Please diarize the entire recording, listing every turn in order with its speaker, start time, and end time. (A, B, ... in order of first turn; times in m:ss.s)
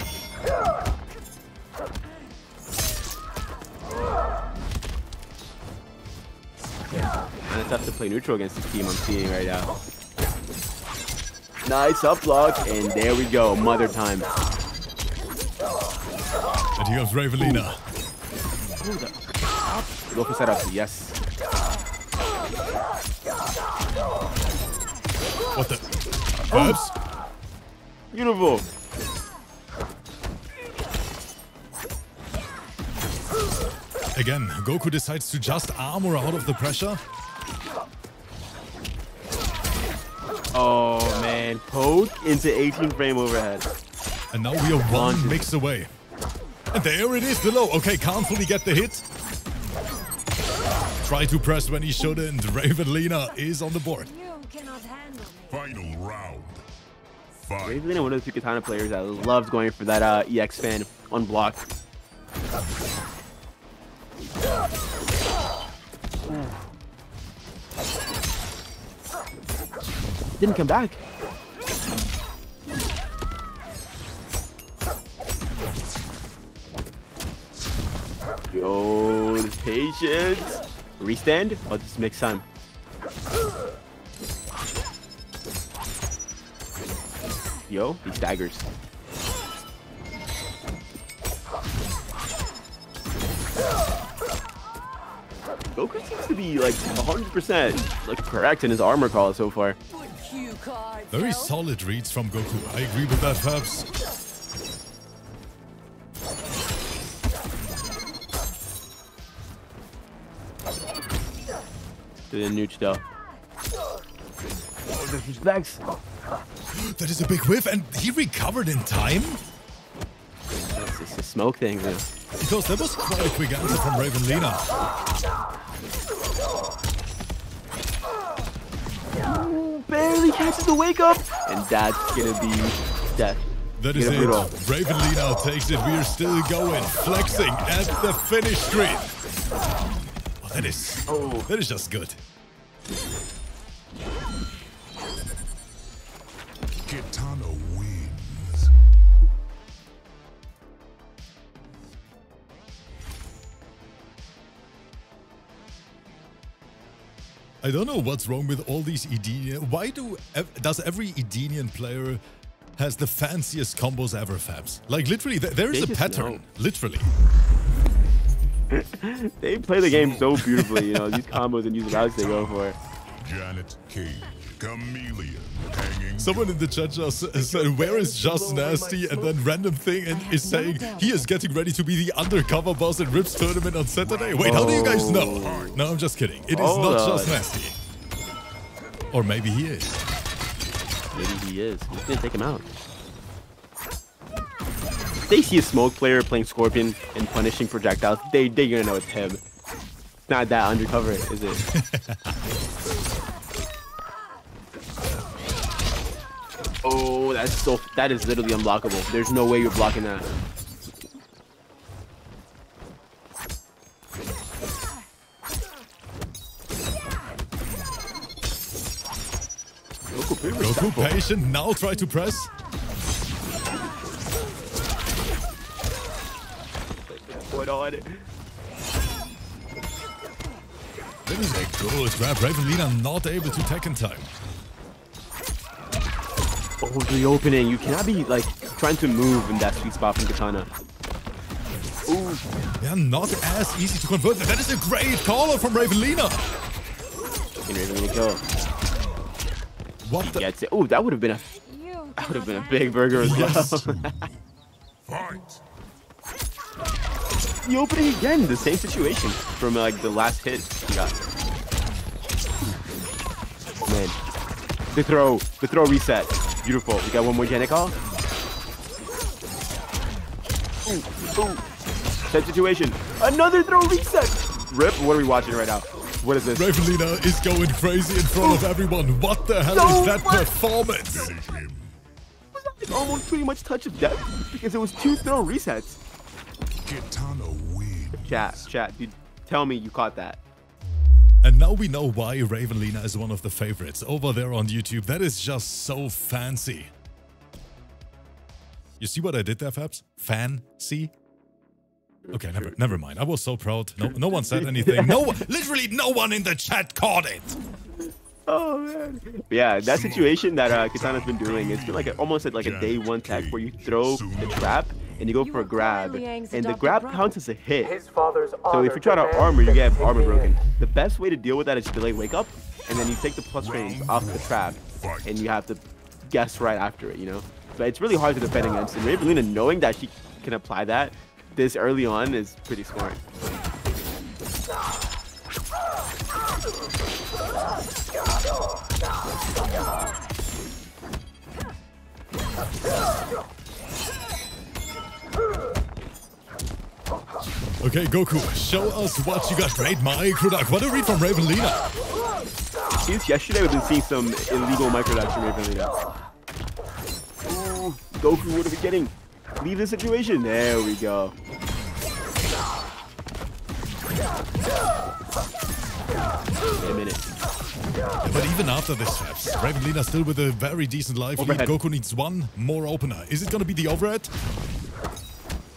0:07.5-0:09.7 A
0:11.6-0:14.3 A
0:16.8-0:17.8 B
0:18.8-0:21.2 A
0:25.5-0:26.9 B
0:26.5-0:26.8 A
0:28.1-0:28.6 A
0:34.1-0:37.0 B
0:40.5-0:43.7 A
0:44.3-0:45.9 B
0:44.9-0:45.5 A
0:46.7-0:49.0 B
0:51.0-0:54.1 B
0:53.7-0:55.6 C
0:55.5-0:56.6 D
0:57.4-0:58.0 D
0:57.6-1:01.6 A
1:10.4-1:11.0 A
1:18.5-1:22.4 A
1:27.7-1:28.6 A
1:35.8-1:39.8 A
1:39.9-1:41.5 C
1:41.1-1:43.8 B
1:52.3-1:53.0 A
1:54.9-1:55.8 A
1:56.7-1:59.4 B
2:00.6-2:02.1 A
2:02.4-2:04.7 B
2:09.2-2:13.4 A
2:13.8-2:19.2 B
2:13.9-2:14.5 A
2:20.4-2:22.2 B
2:21.1-2:21.5 A
2:26.9-2:28.7 D
2:37.6-2:42.2 B
2:42.8-2:47.1 B
2:45.7-2:46.4 A
2:48.7-2:52.8 A
2:49.8-2:50.7 D
2:51.9-2:56.6 D
2:56.2-3:07.8 B
2:57.4-2:59.0 A
3:00.1-3:01.3 C
3:04.0-3:05.9 D
3:04.4-3:05.7 A
3:06.5-3:07.4 A
3:09.1-3:10.0 B
3:11.1-3:12.6 A
3:15.3-3:19.4 A
3:20.3-3:21.6 A
3:21.7-3:22.3 B
3:26.8-3:30.3 A
3:40.1-3:41.1 A
3:40.4-3:42.5 B
3:47.1-3:48.2 A
3:51.2-3:54.3 B
3:56.8-4:00.7 A
4:02.1-4:02.4 A
4:02.8-4:06.4 B
4:07.7-4:08.4 A
4:10.0-4:10.5 B
4:10.2-4:11.5 A
4:11.5-4:13.3 C
4:12.2-4:14.2 A
4:13.1-4:13.9 B
4:13.2-4:14.3 D
4:15.0-4:15.6 D
4:17.6-4:21.3 A
4:23.8-4:24.2 A
4:24.9-4:28.0 A
4:30.8-4:31.6 A
4:32.3-4:36.7 A
4:36.5-4:41.3 B
4:38.4-4:38.7 A
4:39.7-4:40.5 A
4:41.0-4:42.0 D
4:42.5-4:46.0 A
4:46.8-4:48.7 D
4:48.1-4:50.4 A
4:51.4-4:56.9 B
4:59.0-5:01.1 B
5:02.3-5:02.8 A
5:02.3-5:07.6 B
5:04.0-5:05.3 A
5:08.5-5:18.0 A
5:09.8-5:15.2 D
5:15.4-5:17.4 C
5:17.8-5:20.6 E
5:18.7-5:33.2 A
5:23.6-5:25.5 D
5:47.8-5:51.9 B
5:53.0-5:55.9 A
5:57.4-6:01.3 A
6:06.8-6:07.2 A
6:08.2-6:14.3 B
6:11.4-6:11.7 A